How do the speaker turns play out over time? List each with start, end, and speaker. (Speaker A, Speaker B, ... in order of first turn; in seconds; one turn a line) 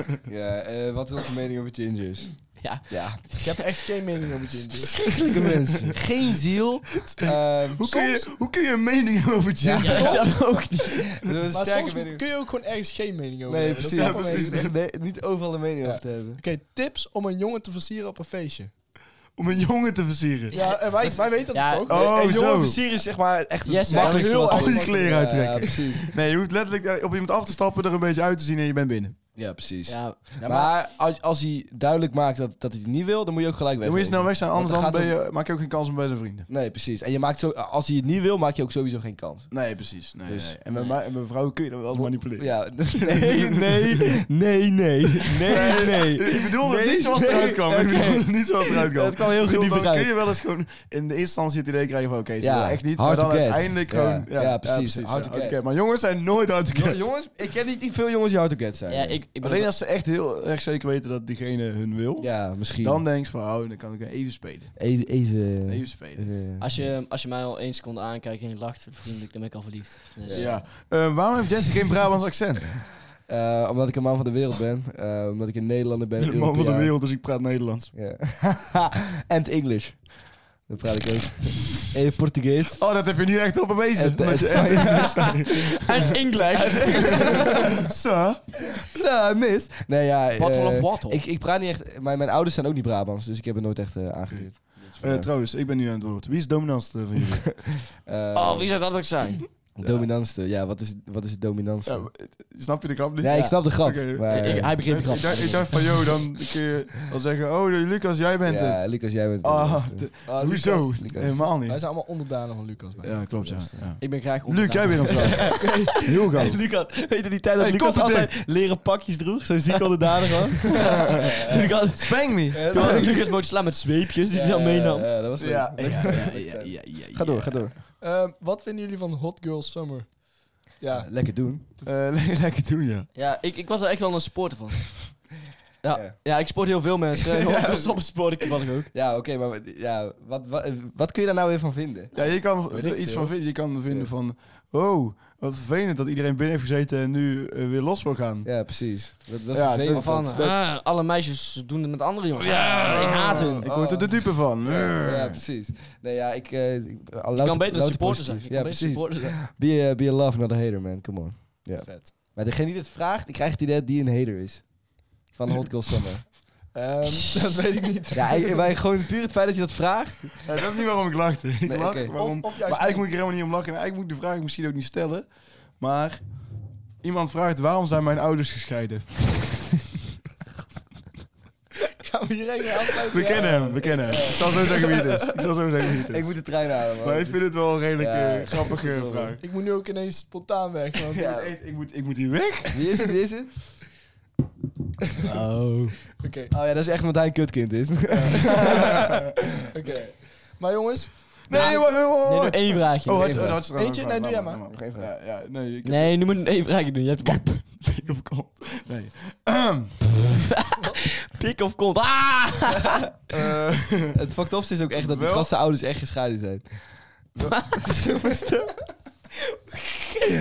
Speaker A: 0.2-3.2
Speaker B: 2.6-3.6
Speaker C: 3.4-5.1
Speaker A: 5.1-7.8
Speaker B: 5.2-5.5
Speaker D: 7.2-10.3
Speaker C: 7.8-8.3
Speaker A: 9.6-12.2
Speaker C: 9.7-10.3
Speaker B: 9.8-11.1
Speaker C: 11.5-14.7
Speaker A: 13.4-16.4
Speaker D: 13.9-14.7
Speaker C: 15.8-18.7
Speaker D: 19.4-20.6
Speaker B: 20.5-21.9
Speaker C: 20.5-22.0
Speaker D: 21.8-22.8
Speaker A: 21.9-26.1
Speaker B: 23.6-24.8
Speaker C: 23.9-25.3
Speaker D: 24.3-29.2
Speaker A: 29.4-35.2
Speaker B: 29.9-30.2
Speaker D: 33.8-36.5
Speaker A: 36.5-40.6
Speaker D: 39.5-44.2
Speaker A: 41.9-50.1
Speaker D: 45.5-57.0
Speaker B: 45.7-46.2
Speaker A: 52.4-55.6
Speaker A: 56.7-59.2
Speaker B: 58.9-59.7
Speaker D: 59.4-64.9
Speaker A: 62.2-63.0
Speaker A: 64.8-66.8
Speaker D: 65.7-66.3
Speaker B: 66.6-70.6
Speaker A: 70.2-70.6
Speaker D: 70.3-72.8
Speaker A: 73.3-77.0
Speaker D: 76.2-77.9
Speaker A: 77.9-82.8
Speaker D: 82.8-88.7
Speaker A: 83.9-87.5
Speaker B: 85.8-87.5
Speaker A: 88.8-95.3
Speaker B: 90.4-91.2
Speaker D: 94.5-97.7
Speaker A: 97.9-98.8
Speaker B: 98.3-99.5
Speaker A: 99.8-102.1
Speaker D: 101.8-111.8
Speaker A: 103.2-104.8
Speaker B: 103.3-103.5
Speaker B: 104.1-105.8
Speaker A: 108.4-110.1
Speaker C: 110.2-113.7
Speaker A: 110.9-111.4
Speaker A: 113.0-113.7
Speaker D: 113.0-116.6
Speaker B: 114.0-125.1
Speaker C: 115.5-115.9
Speaker D: 117.6-118.3
Speaker A: 119.7-120.5
Speaker D: 121.2-123.2
Speaker A: 122.5-123.4
Speaker A: 124.3-127.7
Speaker D: 125.4-127.8
Speaker B: 125.8-126.4
Speaker C: 128.0-131.1
Speaker A: 130.9-131.6
Speaker D: 131.8-133.1
Speaker B: 133.1-135.3
Speaker B: 135.8-138.9
Speaker A: 137.2-138.0
Speaker A: 138.9-142.1
Speaker D: 142.1-148.5
Speaker C: 142.8-143.3
Speaker A: 148.4-150.3
Speaker D: 149.5-150.6
Speaker B: 149.9-153.6
Speaker D: 152.5-155.4
Speaker A: 153.3-154.4
Speaker A: 154.9-166.3
Speaker B: 157.3-159.3
Speaker C: 161.8-162.1
Speaker C: 166.7-168.6
Speaker A: 168.1-170.4
Speaker D: 170.4-176.4
Speaker A: 171.6-172.1
Speaker C: 172.1-173.1
Speaker D: 177.0-179.7
Speaker C: 182.0-184.2
Speaker D: 183.1-186.4
Speaker A: 184.1-184.9
Speaker A: 186.1-189.3
Speaker D: 187.0-189.4
Speaker C: 189.4-191.2
Speaker A: 191.1-191.5
Speaker D: 191.1-193.1
Speaker A: 192.7-193.5
Speaker B: 195.3-195.9
Speaker C: 196.2-196.5
Speaker A: 196.5-199.0
Speaker D: 198.1-199.2
Speaker C: 199.7-201.8
Speaker D: 201.5-206.2
Speaker B: 201.5-203.4
Speaker A: 203.2-203.6
Speaker C: 203.5-204.6
Speaker A: 204.7-205.1
Speaker B: 205.8-207.6
Speaker D: 207.2-209.9
Speaker B: 210.6-213.0
Speaker D: 213.3-214.2
Speaker A: 214.1-216.7
Speaker D: 214.9-215.5
Speaker B: 217.4-218.0
Speaker A: 217.8-218.7
Speaker B: 219.7-220.2